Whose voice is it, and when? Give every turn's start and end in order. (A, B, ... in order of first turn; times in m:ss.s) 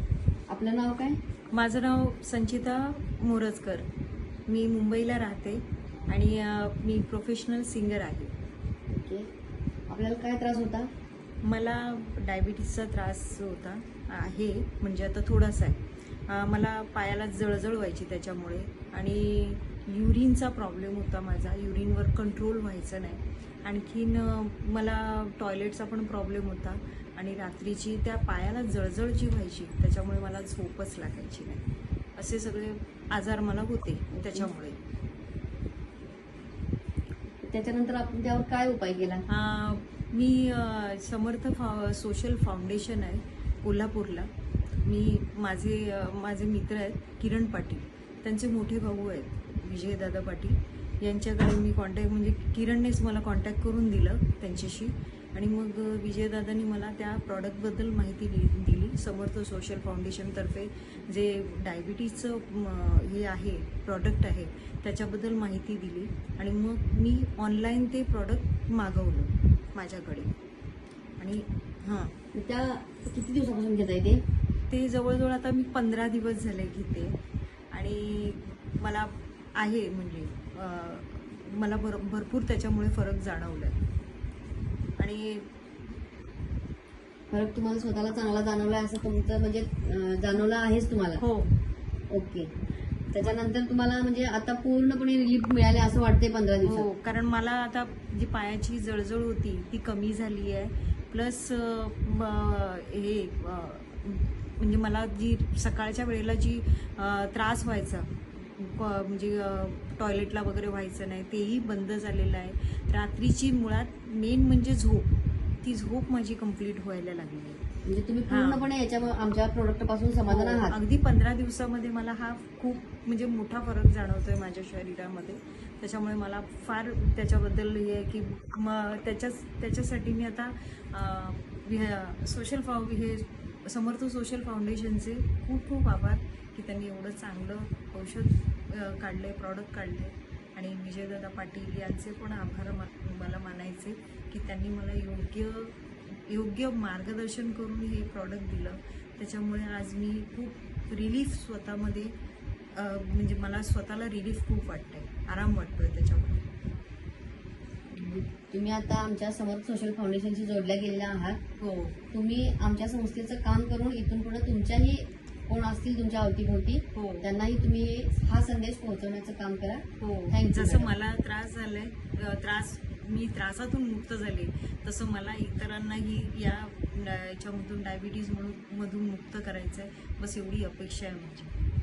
0:00.5-0:01.2 A
0:01.5-0:03.8 B
0:04.5-0:08.3 B
0:08.9-0:09.3 A
0:09.9-0:10.9 A
0:11.4-0:31.6 B
0:32.2-0:34.8 B
0:34.1-0:34.5 A
0:37.4-0:39.2 A
0:39.3-0:44.3 B
0:44.8-1:10.3 B
1:11.2-1:12.1 B
1:12.3-1:14.2 A
1:14.7-1:17.2 B
1:17.7-1:23.8 B
1:25.0-1:25.5 B
1:27.3-1:31.2 A
1:31.2-1:31.5 B
1:32.1-1:32.5 A
1:33.1-1:36.9 A
1:36.6-1:55.1 B
1:55.6-1:57.6 B
1:57.8-2:00.8 A
1:58.3-1:58.7 B
2:00.3-2:32.1 B
2:32.7-2:36.4 B
2:37.9-2:41.4 A
2:41.6-2:42.0 B
2:42.1-2:50.9 A
2:46.9-2:47.3 B
2:50.0-3:01.5 B